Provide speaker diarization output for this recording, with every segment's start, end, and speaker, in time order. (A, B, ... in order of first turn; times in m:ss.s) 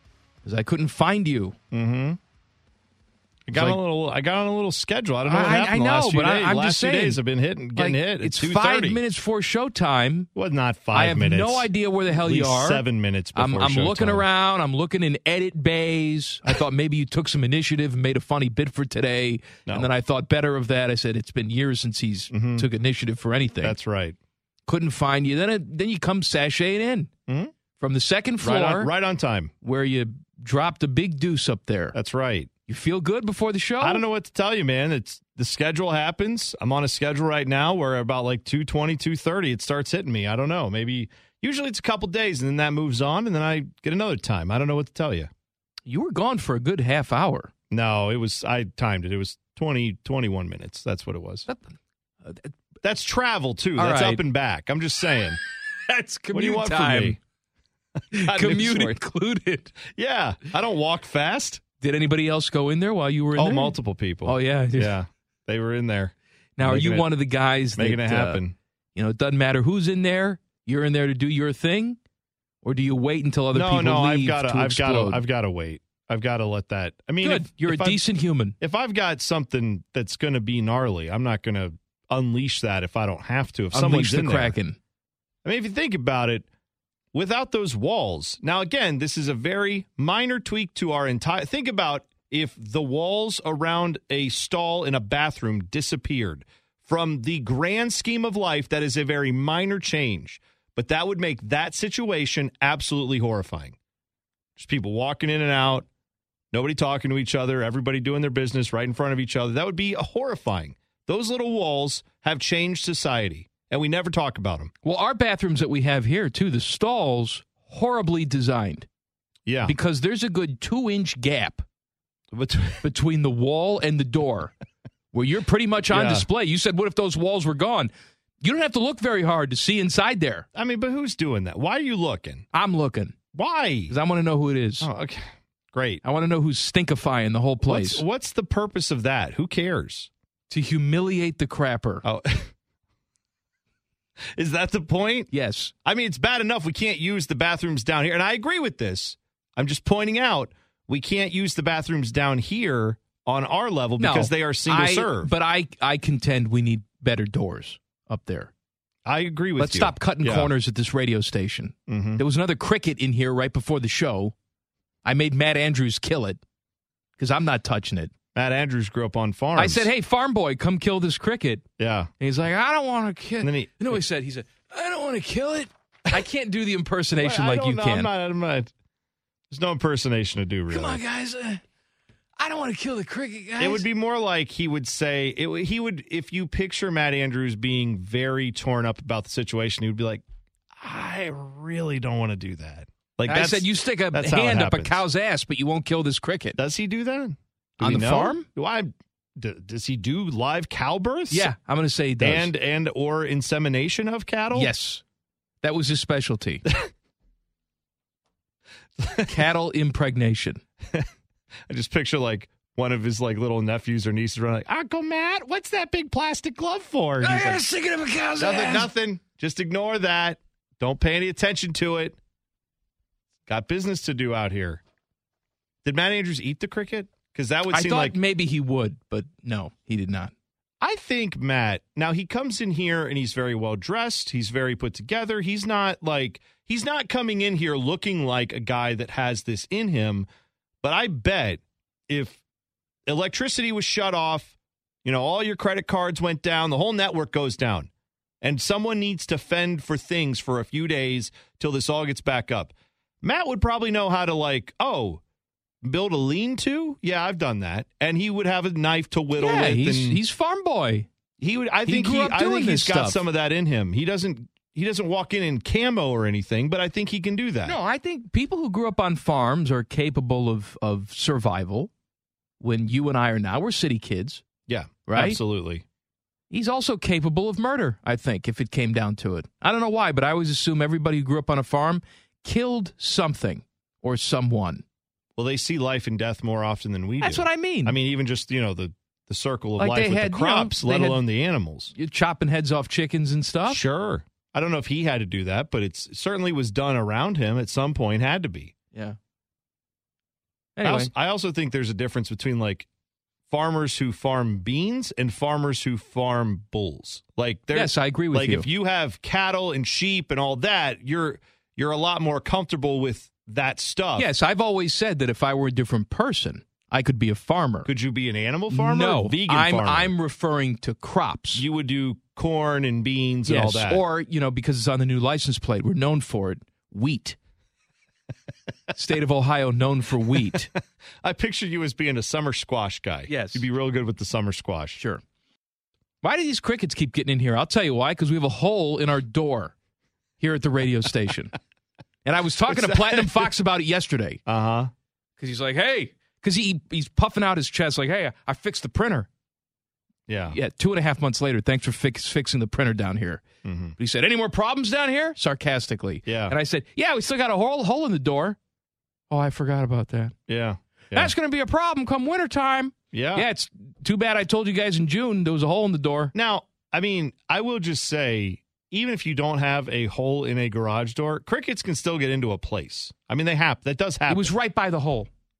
0:00.4-0:01.5 A
0:01.7-0:02.2 B
0:03.5-0:09.0 B
0:03.5-0:03.8 A
0:05.2-0:07.2 A
0:07.7-0:10.3 A
0:10.3-0:14.3 B
0:10.9-0:12.8 A
0:13.3-0:23.8 A
0:22.3-0:22.7 B
0:23.6-0:24.2 B
0:24.7-0:27.1 A
0:27.8-0:28.9 A
0:28.4-0:29.5 B
0:29.6-0:32.0 A
0:31.9-0:32.5 B
0:32.7-0:34.0 A
0:33.8-0:45.3 B
0:45.9-0:47.5 A
0:47.7-0:51.5 B
0:51.5-0:52.5 A
0:52.8-0:55.4 B
0:53.8-0:54.2 A
0:55.9-0:57.2 A
0:56.3-0:57.2 B
0:58.1-0:59.7 A
0:58.1-0:59.0 B
0:59.9-1:01.6 B
1:01.8-1:03.7 A
1:03.4-1:07.1 B
1:04.2-1:05.0 A
1:06.6-1:08.4 A
1:07.8-1:08.6 B
1:08.9-1:12.0 A
1:12.6-1:15.2 A
1:13.5-1:18.0 B
1:17.2-1:18.5 A
1:18.6-1:24.6 B
1:23.7-1:24.8 A
1:25.4-1:26.5 B
1:27.1-1:43.8 B
1:44.6-1:45.9 B
1:46.5-1:54.7 B
1:54.8-1:58.9 A
1:59.4-1:59.8 B
1:59.6-2:01.6 A
2:02.3-2:02.8 B
2:02.8-2:04.5 A
2:05.1-2:07.9 A
2:05.9-2:06.3 B
2:08.4-2:10.4 A
2:10.5-2:12.4 B
2:12.5-2:13.2 A
2:13.3-2:13.9 B
2:13.9-2:14.9 A
2:14.8-2:16.0 B
2:16.0-2:18.0 A
2:17.6-2:20.1 B
2:20.5-2:22.0 A
2:22.0-2:22.5 B
2:24.4-2:25.3 B
2:25.3-2:25.7 A
2:25.8-2:35.3 B
2:34.0-2:38.5 A
2:39.0-2:40.5 B
2:39.6-2:44.3 A
2:41.9-2:42.2 B
2:45.0-2:46.4 A
2:47.2-2:48.1 A
2:48.3-2:49.9 B
2:49.6-2:51.6 A
2:51.8-2:52.1 B
2:52.2-2:58.1 A
2:53.4-2:54.0 B
2:57.2-2:58.7 B
2:59.5-3:01.0 B
3:00.7-3:01.6 A
3:02.4-3:03.8 A
3:03.6-3:10.2 B
3:10.7-3:15.0 B
3:13.3-3:16.6 A
3:16.6-3:21.5 B
3:17.8-3:18.4 A
3:21.3-3:22.5 A
3:22.2-3:24.7 B
3:24.5-3:25.0 A
3:25.6-3:26.6 A
3:29.0-3:29.4 B
3:29.2-3:30.6 A
3:31.7-3:37.6 B
3:37.2-3:38.9 A
3:38.4-3:42.2 B
3:43.5-3:44.8 B
3:45.8-3:48.2 B
3:47.7-3:50.3 A
3:50.8-4:00.3 B
4:00.8-4:02.4 B
4:03.1-4:07.9 B
4:08.4-4:15.2 B
4:15.8-4:20.2 B
4:19.3-4:21.1 A
4:21.4-4:27.8 B
4:21.8-4:23.3 A
4:27.6-4:31.9 A
4:32.6-4:34.4 A
4:34.7-4:35.8 B
4:35.1-4:35.4 A
4:36.5-4:44.8 A
4:45.4-4:51.9 B
4:47.2-4:47.9 A
4:49.8-4:51.2 A
4:51.9-4:53.8 A
4:53.7-4:58.7 B
5:00.8-5:01.1 A
5:00.8-5:02.9 B
5:03.5-5:14.3 B
5:07.7-5:08.7 A
5:14.2-5:17.9 A
5:17.8-5:20.1 B
5:18.7-5:21.6 A
5:21.5-5:24.0 B
5:23.4-5:27.4 A
5:28.9-5:30.7 A
5:31.2-5:35.0 B
5:33.3-5:33.6 A
5:36.2-5:39.7 A
5:40.4-5:41.5 A
5:42.2-5:44.4 A
5:42.7-5:43.5 B
5:44.4-5:44.9 B
5:45.4-5:49.3 A
5:50.3-5:50.6 B
5:50.5-5:53.4 A
5:53.6-5:54.0 B
5:54.0-5:58.6 A
5:56.2-5:56.5 B
5:59.3-6:00.3 A
6:00.5-6:01.3 B
6:01.1-6:06.3 A
6:03.1-6:03.5 B
6:06.3-6:14.5 B
6:14.3-6:15.3 A